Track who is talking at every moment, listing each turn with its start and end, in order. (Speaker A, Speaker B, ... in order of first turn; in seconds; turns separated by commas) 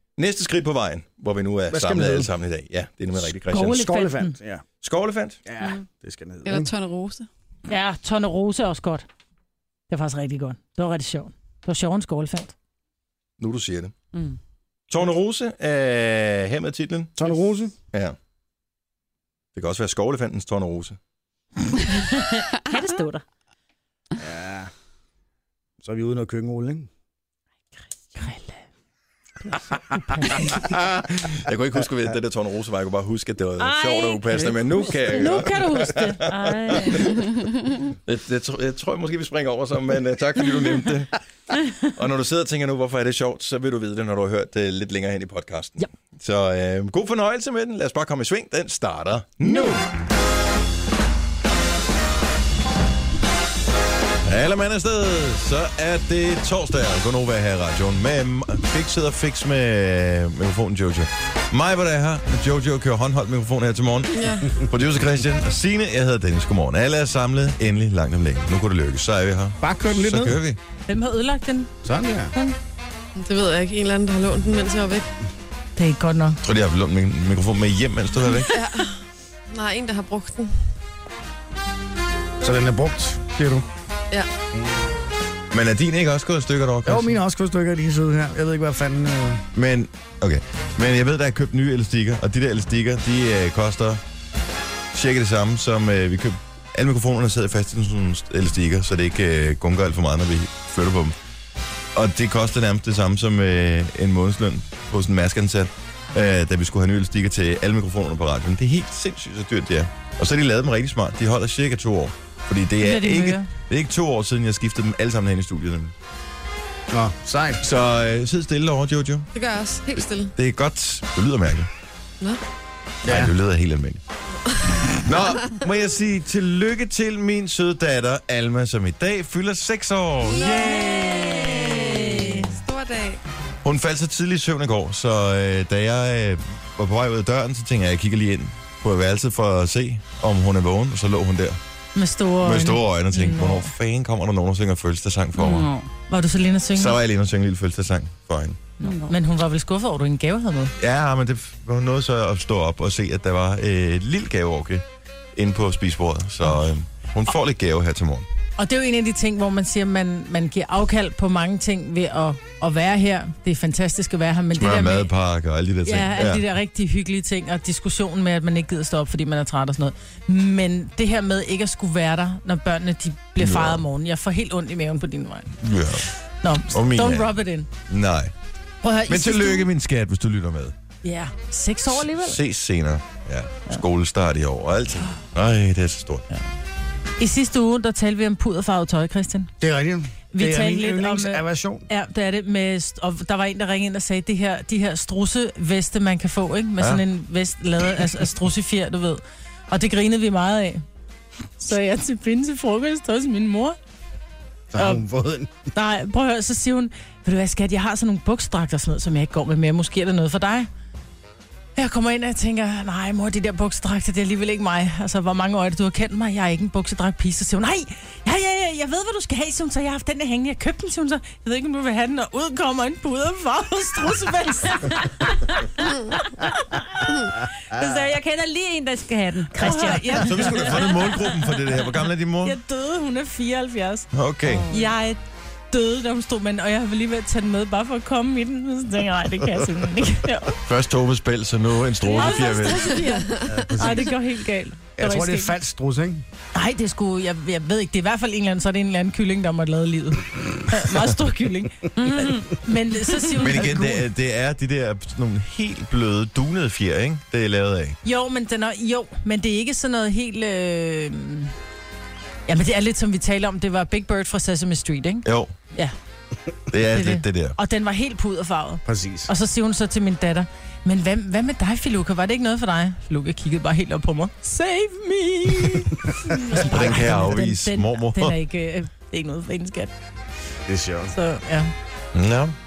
Speaker A: 0.2-3.8, Speaker B: 1.7-2.3, Speaker C: 3.5-4.3, Speaker B: 3.6-4.6, Speaker A: 4.8-5.4, Speaker B: 5.5-6.7, Speaker D: 6.4-7.3, Speaker C: 7.7-9.0, Speaker C: 9.9-12.5, Speaker A: 13.4-13.9, Speaker A: 14.9-17.1, Speaker B: 17.2-17.8, Speaker A: 19.5-21.0, Speaker E: 21.9-23.2, Speaker B: 24.2-24.7, Speaker B: 25.8-26.9, Speaker C: 28.1-28.6, Speaker C: 30.0-30.5, Speaker A: 30.4-37.5, Speaker E: 33.6-35.5, Speaker C: 35.0-36.2, Speaker E: 36.2-37.3, Speaker A: 38.0-41.2, Speaker A: 42.0-49.8, Speaker A: 54.2-70.6, Speaker D: 64.1-64.6, Speaker B: 69.6-70.4, Speaker C: 70.9-71.7, Speaker B: 71.8-72.3, Speaker D: 73.2-75.1, Speaker C: 75.8-76.4, Speaker A: 76.4-78.5, Speaker D: 78.5-79.0, Speaker D: 79.5-80.5, Speaker B: 82.4-83.7, Speaker A: 85.5-87.2, Speaker B: 86.8-89.4, Speaker A: 89.5-94.0, Speaker A: 94.9-101.1, Speaker A: 101.9-115.9, Speaker C: 112.8-113.5, Speaker B: 116.9-117.6, Speaker A: 117.6-119.3, Speaker D: 119.3-120.3, Speaker A: 120.3-121.7, Speaker B: 123.0-123.3, Speaker A: 123.0-124.0, Speaker D: 124.5-124.8, Speaker A: 125.0-132.4, Speaker D: 130.2-133.2, Speaker C: 131.1-131.7, Speaker A: 133.6-141.6, Speaker C: 141.9-143.7, Speaker A: 142.4-145.7, Speaker E: 145.3-145.9, Speaker C: 146.1-147.0, Speaker A: 146.7-148.6, Speaker E: 148.8-149.1, Speaker C: 148.8-150.7, Speaker A: 150.8-154.8, Speaker A: 155.3-158.3, Speaker C: 158.6-165.1, Speaker A: 164.5-166.4, Speaker C: 165.8-175.5, Speaker A: 173.4-173.8, Speaker A: 175.6-176.1, Speaker C: 176.4-177.7, Speaker A: 176.7-177.3, Speaker A: 177.9-178.3, Speaker C: 178.8-179.7, Speaker A: 179.1-180.7, Speaker C: 181.0-182.4, Speaker A: 181.9-186.2, Speaker C: 187.2-189.5, Speaker B: 189.6-191.9, Speaker C: 190.3-200.8, Speaker C: 201.6-203.8, Speaker B: 204.7-205.5, Speaker C: 204.8-205.0, Speaker C: 205.7-210.7, Speaker C: 211.8-227.0, Speaker E: 227.7-230.8, Speaker C: 229.5-231.3, Speaker A: 230.2-232.6, Speaker C: 232.4-234.1, Speaker A: 234.1-234.7, Speaker E: 234.4-234.9, Speaker C: 234.7-235.2, Speaker C: 235.7-240.6, Speaker A: 240.6-243.0, Speaker E: 242.1-242.6, Speaker C: 242.1-245.6, Speaker B: 243.5-244.1, Speaker B: 245.0-246.2, Speaker C: 246.5-254.0, Speaker E: 252.0-252.5, Speaker A: 253.4-258.0, Speaker C: 258.0-261.5, Speaker C: 262.5-265.9, Speaker A: 265.2-265.5, Speaker A: 266.7-267.6, Speaker C: 266.9-279.9, Speaker B: 268.8-269.3, Speaker A: 276.5-278.4, Speaker B: 280.6-281.1, Speaker C: 281.1-281.7, Speaker A: 282.1-282.5